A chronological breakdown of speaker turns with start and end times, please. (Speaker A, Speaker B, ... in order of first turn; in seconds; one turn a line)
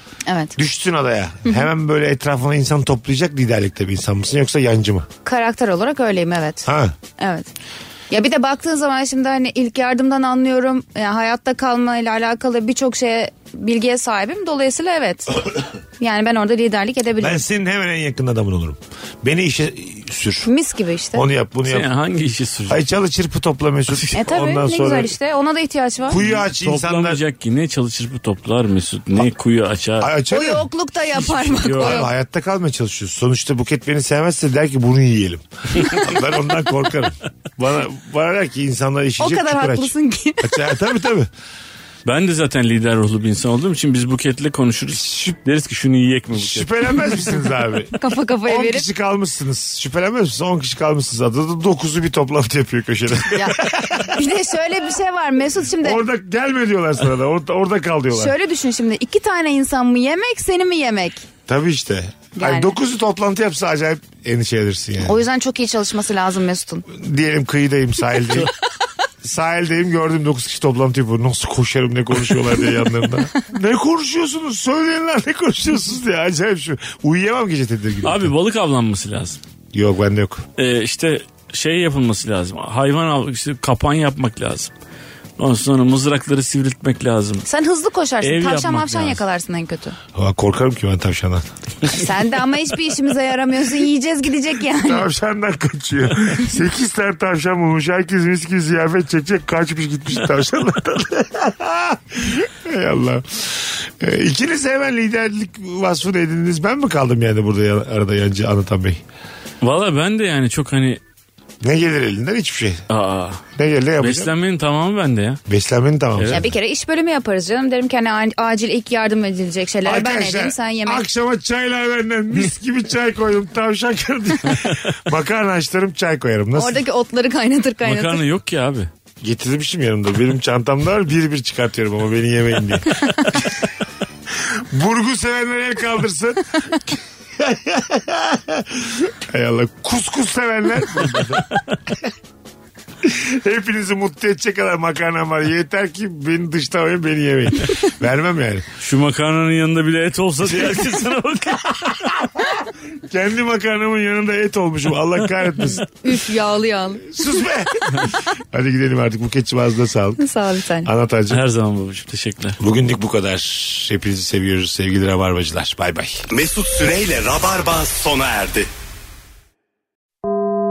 Speaker A: 0.3-0.5
Speaker B: 0.6-5.1
Speaker A: 5.2-7.5
Speaker B: 6.7-6.9
Speaker A: 8.1-15.4
Speaker A: 16.0-17.4
Speaker B: 17.2-20.5
Speaker A: 20.4-21.2
Speaker B: 21.1-21.9
Speaker C: 21.6-22.8
Speaker B: 22.7-25.1
Speaker A: 24.1-26.2
Speaker B: 26.1-27.2
Speaker C: 26.1-30.1
Speaker B: 30.0-30.7
Speaker A: 30.3-32.1
Speaker C: 31.2-32.0
Speaker B: 31.7-41.3
Speaker A: 39.2-40.7
Speaker C: 42.0-47.2
Speaker B: 44.9-45.4
Speaker B: 46.3-54.2
Speaker A: 47.9-48.9
Speaker A: 53.3-56.0
Speaker B: 55.8-58.3
Speaker A: 58.1-61.2
Speaker B: 61.5-65.2
Speaker A: 62.4-62.7
Speaker A: 65.0-66.8
Speaker B: 66.9-68.5
Speaker B: 69.2-78.3
Speaker C: 78.0-79.4
Speaker B: 79.7-80.4
Speaker C: 80.6-84.7
Speaker C: 85.4-87.4
Speaker A: 87.4-90.0
Speaker C: 88.2-89.2
Speaker B: 90.1-91.4
Speaker A: 91.8-95.1
Speaker B: 94.8-109.0
Speaker C: 109.6-111.0
Speaker B: 111.6-112.8
Speaker C: 112.9-113.4
Speaker B: 113.6-114.3
Speaker C: 114.0-115.4
Speaker B: 115.5-116.5
Speaker C: 116.2-116.5
Speaker A: 116.3-121.0
Speaker B: 119.8-126.8
Speaker A: 126.5-128.2
Speaker C: 127.8-128.9
Speaker B: 129.2-133.7
Speaker B: 134.3-141.6
Speaker B: 143.0-148.7
Speaker C: 148.8-151.9
Speaker B: 152.1-155.8
Speaker A: 155.9-157.2
Speaker B: 157.1-160.2
Speaker A: 160.2-160.9
Speaker B: 160.8-161.4
Speaker C: 161.3-162.6
Speaker B: 162.6-166.2
Speaker D: 166.3-168.7